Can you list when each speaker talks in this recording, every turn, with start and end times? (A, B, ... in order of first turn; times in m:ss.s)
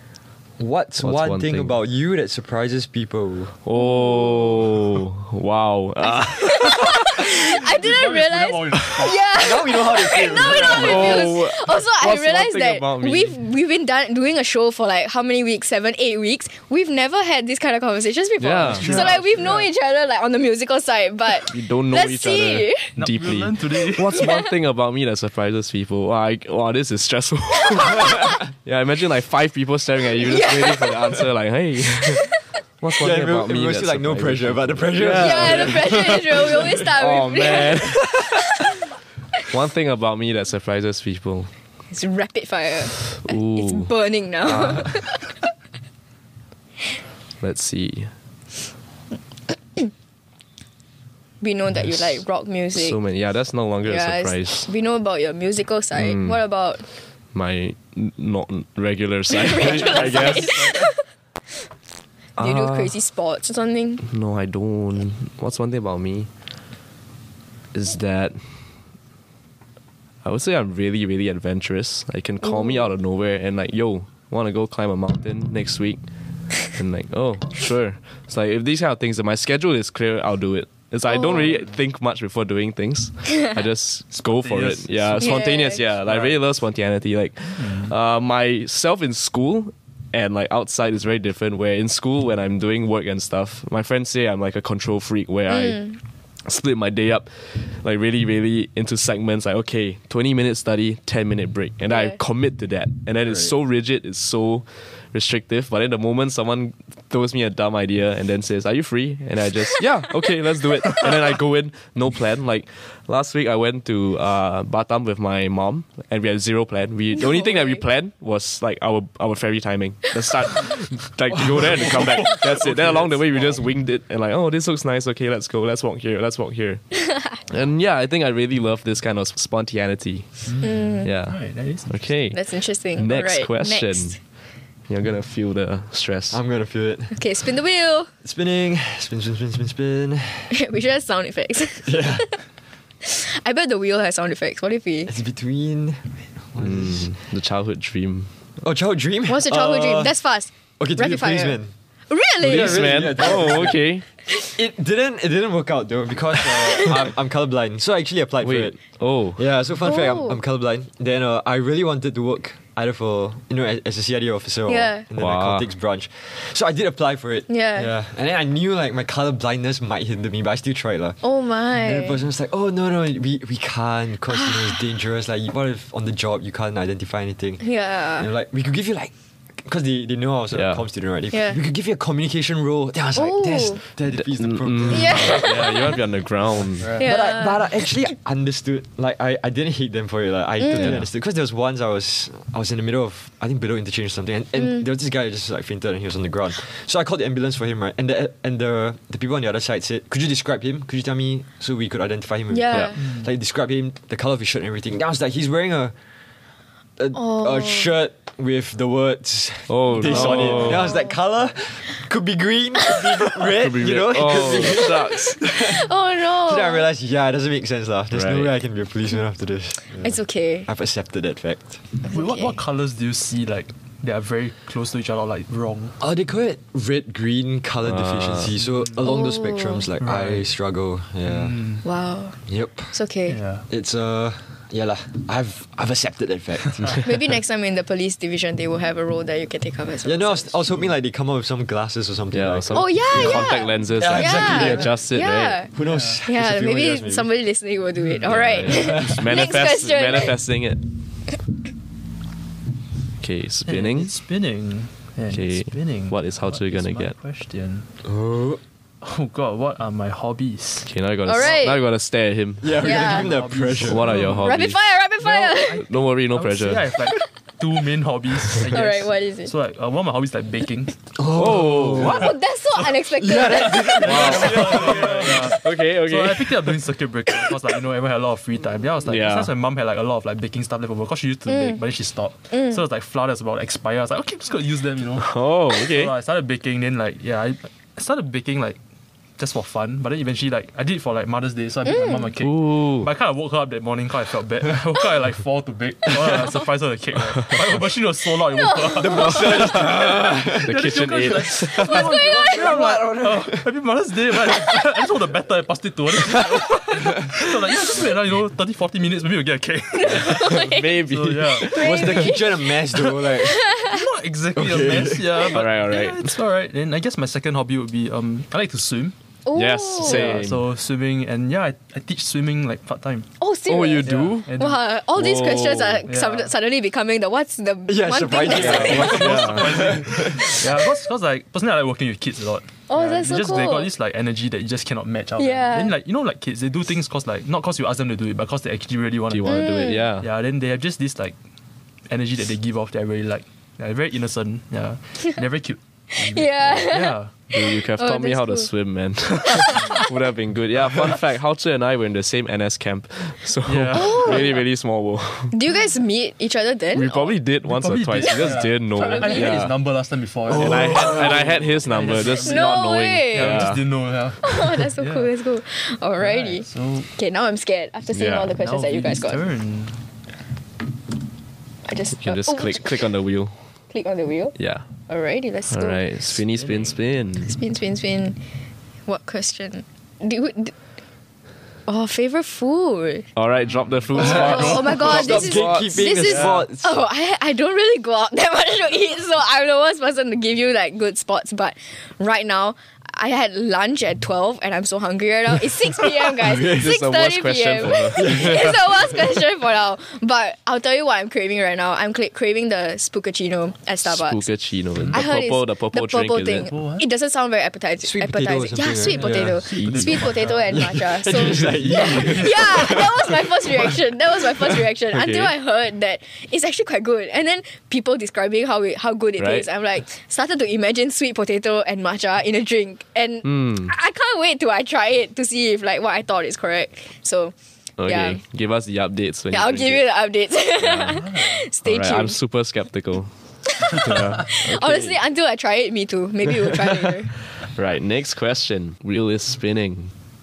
0:00.6-0:03.6 A
0:01.0-0:01.7 B
0:03.6-0:07.2 B
0:03.8-0:04.5 C
0:06.0-0:22.9 C
0:07.2-0:09.3 D
0:09.3-0:11.2 A
0:10.3-0:11.2 D
0:10.6-0:13.4 B
0:18.4-0:19.1 B
0:18.6-0:19.7 D
0:21.5-0:38.6 B
0:23.0-0:24.2 D
0:24.1-0:24.5 C
0:30.2-0:31.2 C
0:33.0-0:36.8 A
0:35.2-0:38.1 C
0:39.4-0:41.5 B
0:41.9-0:45.3 C
0:43.1-0:43.9 B
0:44.4-0:45.0 B
0:47.4-0:48.1 B
0:51.4-0:53.0 C
0:52.7-0:54.7 B
0:53.8-0:56.8 C
0:55.9-0:56.4 B
0:57.3-1:00.8 B
0:59.3-1:01.0 C
0:59.5-1:00.9 D
1:02.4-1:03.0 B
1:02.4-1:04.0 C
1:04.0-1:06.3 B
1:07.7-1:08.5 B
1:10.2-1:16.0 B
1:12.4-1:12.8 C
1:16.6-2:06.8 B
1:21.1-1:21.6 C
1:24.2-1:25.4 D
1:25.2-1:25.8 C
1:26.0-1:26.4 D
1:27.5-1:27.9 D
1:35.5-1:36.0 C
1:41.9-1:42.2 C
1:43.2-1:43.5 A
1:57.2-1:57.8 C
2:01.5-2:03.6 D
2:07.4-2:12.4 B
2:10.5-2:12.0 D
2:10.6-2:11.1 C
2:12.3-2:14.2 C
2:12.9-2:14.2 B
2:14.9-2:16.4 B
2:16.3-2:17.2 A
2:17.1-2:18.1 C
2:18.2-2:20.5 A
2:20.5-2:22.4 C
2:21.8-2:22.3 A
2:23.0-2:25.1 C
2:25.1-2:27.1 A
2:26.6-2:28.3 B
2:28.6-2:30.1 A
2:29.3-2:31.6 C
2:30.8-2:31.7 A
2:32.1-2:33.3 C
2:32.4-2:38.8 A
2:32.4-2:34.0 B
2:36.6-2:36.9 C
2:38.4-2:39.4 B
2:39.4-2:51.2 A
2:39.8-2:40.4 C
2:44.7-2:45.0 C
2:45.2-2:45.7 B
2:47.5-2:47.9 C
2:51.2-2:52.2 C
2:51.8-2:57.6 A
2:54.3-2:54.7 C
2:57.6-2:58.3 C
2:58.2-3:05.6 A
3:00.5-3:00.8 B
3:01.3-3:01.6 C
3:03.1-3:03.8 C
3:04.1-3:07.0 B
3:04.9-3:06.0 C
3:06.9-3:25.9 A
3:07.0-3:07.7 C
3:10.6-3:11.0 C
3:10.7-3:11.0 B
3:14.6-3:14.8 C
3:22.5-3:23.0 C
3:23.0-3:23.3 D
3:27.0-3:41.8 A
3:27.1-3:27.9 C
3:29.7-3:30.9 B
3:30.0-3:30.7 D
3:30.2-3:31.1 C
3:33.6-3:35.4 B
3:34.7-3:36.8 C
3:38.1-3:38.5 B
3:39.9-3:40.7 C
3:42.0-3:42.6 C
3:42.1-3:46.0 D
3:46.0-3:51.6 A
3:47.8-3:48.5 B
3:48.6-3:49.1 D
3:49.0-3:49.9 C
3:50.0-3:50.5 D
3:51.2-3:51.8 D
3:51.8-3:52.4 C
3:52.5-3:52.9 A
3:52.9-3:53.4 C
3:53.3-3:53.6 D
3:53.7-3:57.2 A
3:57.0-4:00.6 C
4:00.0-4:03.4 A
4:02.3-4:05.6 B
4:02.7-4:10.4 C
4:04.0-4:05.0 A
4:05.7-4:07.3 A
4:05.8-4:06.2 D
4:08.2-4:10.8 B
4:08.8-4:09.3 A
4:13.2-4:14.1 B
4:13.6-4:17.9 D
4:15.3-4:17.2 B
4:18.0-4:18.6 A
4:19.0-4:21.6 D
4:20.8-4:22.9 B
4:21.2-4:21.8 C
4:22.6-4:24.2 A
4:22.8-4:24.5 D
4:22.8-4:23.3 C
4:23.8-4:24.8 B
4:24.4-4:25.8 C
4:25.2-4:31.0 D
4:25.8-4:26.9 B
4:28.7-4:29.5 C
4:31.1-4:32.3 A
4:31.3-4:32.3 B
4:32.0-4:34.6 C
4:33.2-4:35.5 A
4:33.9-4:48.8 D
4:34.0-4:36.8 B
4:39.0-4:39.5 B
4:41.5-4:41.8 C
4:42.5-4:42.8 C
4:45.2-4:46.1 B
4:49.4-5:00.1 D
4:51.8-4:52.3 C
4:52.4-4:53.1 B
4:58.6-4:59.4 C
4:59.0-5:00.7 A
4:59.3-5:02.1 B
5:00.6-5:11.9 D
5:01.7-5:03.0 C
5:02.6-5:03.6 A
5:09.9-5:10.9 C
5:10.2-5:11.7 B
5:11.6-5:12.7 C
5:11.7-5:13.7 A
5:13.4-5:14.0 C
5:13.8-5:19.1 D
5:14.5-5:15.5 A
5:15.4-5:16.3 B
5:19.4-5:20.4 C
5:19.5-5:20.7 B
5:20.0-5:23.3 D
5:23.4-5:29.3 C
5:23.7-5:24.5 B
5:24.0-5:24.8 D
5:25.1-5:26.0 B
5:26.1-5:26.5 D
5:27.9-5:30.7 A
5:28.5-5:30.1 B
5:28.5-5:39.6 D
5:32.9-5:33.9 C
5:35.4-5:35.9 C
5:39.3-5:40.3 B
5:39.4-5:40.1 C
5:40.2-5:41.4 D
5:42.1-5:47.3 D
5:46.1-5:48.7 C
5:47.5-5:55.6 B
5:49.4-5:50.1 C
5:53.6-5:54.6 D
5:53.9-5:54.6 C
5:55.5-5:57.3 C
5:56.9-5:59.7 B
5:57.6-6:02.8 D
5:59.0-5:59.6 C
6:00.5-6:01.4 A
6:00.5-6:03.9 B
6:02.4-6:03.7 C
6:03.3-6:05.3 D
6:04.4-6:09.4 C
6:06.2-6:07.1 D
6:08.1-6:08.6 B
6:08.6-6:10.0 D
6:11.8-6:13.0 C
6:12.1-6:13.6 B
6:13.9-6:14.6 C
6:14.6-6:14.9 B
6:15.1-6:16.0 C
6:15.7-6:17.6 B
6:16.5-6:16.9 D
6:17.4-6:18.4 C
6:19.1-6:20.7 C
6:21.9-6:23.3 C
6:23.3-6:26.2 B
6:24.1-6:25.0 D
6:24.1-6:44.4 C
6:24.2-6:27.0 A
6:26.2-6:26.6 D
6:36.3-6:36.9 A
6:36.6-6:38.8 B
6:38.1-6:38.8 A
6:44.0-6:46.7 B
6:45.0-6:45.2 D
6:45.1-7:07.5 C
6:46.7-6:47.1 D
6:48.0-6:50.2 A
6:49.1-6:52.9 D
6:49.7-6:50.2 B
6:50.7-6:53.4 A
6:55.1-6:55.5 B
6:59.4-6:59.6 B
7:03.4-7:03.9 B
7:08.0-7:10.0 B
7:08.0-7:08.4 C
7:09.5-7:12.4 C
7:10.8-7:11.3 B
7:11.2-7:11.6 D
7:11.8-7:15.2 B
7:13.8-7:17.3 C
7:17.7-7:20.1 B